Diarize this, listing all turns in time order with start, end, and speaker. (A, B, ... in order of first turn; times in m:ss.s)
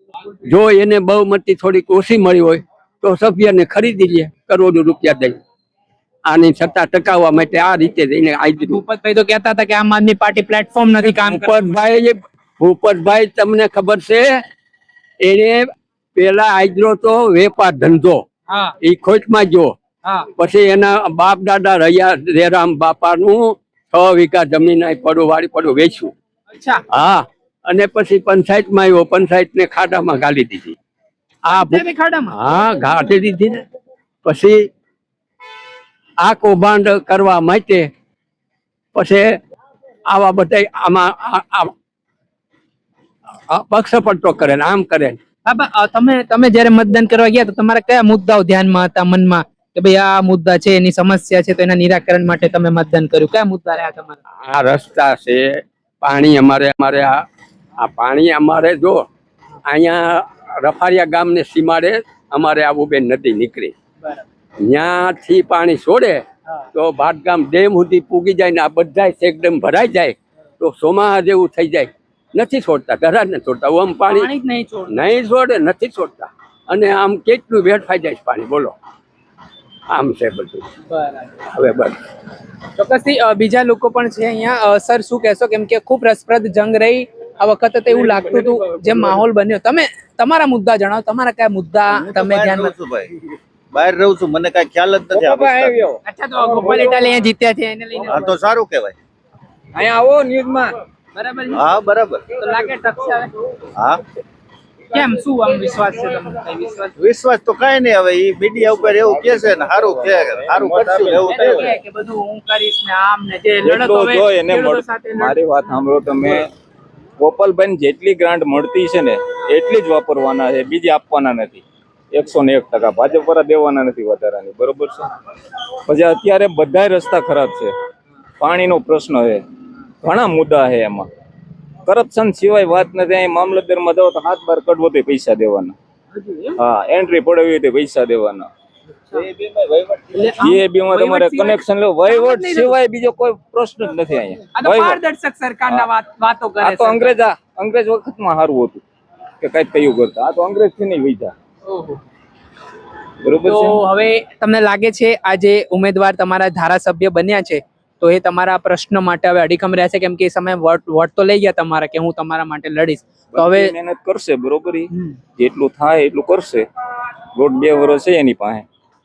0:00.4-0:05.4 A
0:06.3-0:08.8 A
0:08.6-0:11.5 B
0:11.0-0:14.4 A
0:15.2-0:18.2 A
0:18.5-0:18.8 B
0:18.8-0:19.7 A
0:20.4-0:26.1 A
0:26.5-0:26.8 B
0:26.9-0:30.8 A
0:31.5-0:33.6 A
0:31.5-0:32.4 B
0:34.2-0:34.7 A
0:36.2-0:37.9 A
0:39.0-0:39.3 A
0:40.1-0:41.7 A
0:43.5-0:45.2 A
0:45.5-0:54.2 B
0:54.4-0:57.2 A
0:57.8-0:59.1 A
0:59.7-1:03.7 A
1:04.7-1:06.2 A
1:06.7-1:14.3 A
1:14.1-1:15.0 B
1:14.9-1:18.7 A
1:19.9-1:20.6 A
1:20.9-1:21.4 B
1:21.5-1:22.0 A
1:22.8-1:32.7 B
1:32.0-1:33.1 C
1:33.7-1:35.8 C
1:35.2-1:36.0 D
1:36.0-1:38.4 B
1:38.0-1:39.0 C
1:39.7-1:40.7 D
1:41.2-1:41.7 B
1:41.5-1:42.2 C
1:42.3-1:43.3 B
1:43.8-1:44.0 C
1:44.9-1:46.9 B
1:47.0-1:51.7 C
1:48.7-1:51.7 D
1:51.1-1:55.4 B
1:53.6-1:56.5 D
1:57.2-2:05.1 D
2:05.9-2:07.7 D
2:08.4-2:09.4 D
2:10.0-2:11.1 D
2:11.9-2:15.8 D
2:16.2-2:16.5 B
2:16.6-2:18.5 D
2:19.3-2:25.0 D
2:20.1-2:22.8 B
2:24.6-2:27.2 B
2:26.6-2:28.8 D
2:29.4-2:31.3 D
2:31.6-2:32.0 B
2:33.2-2:33.8 D
2:33.4-2:43.7 B
2:43.3-2:46.7 D
2:44.9-2:45.2 B
2:47.4-2:48.6 D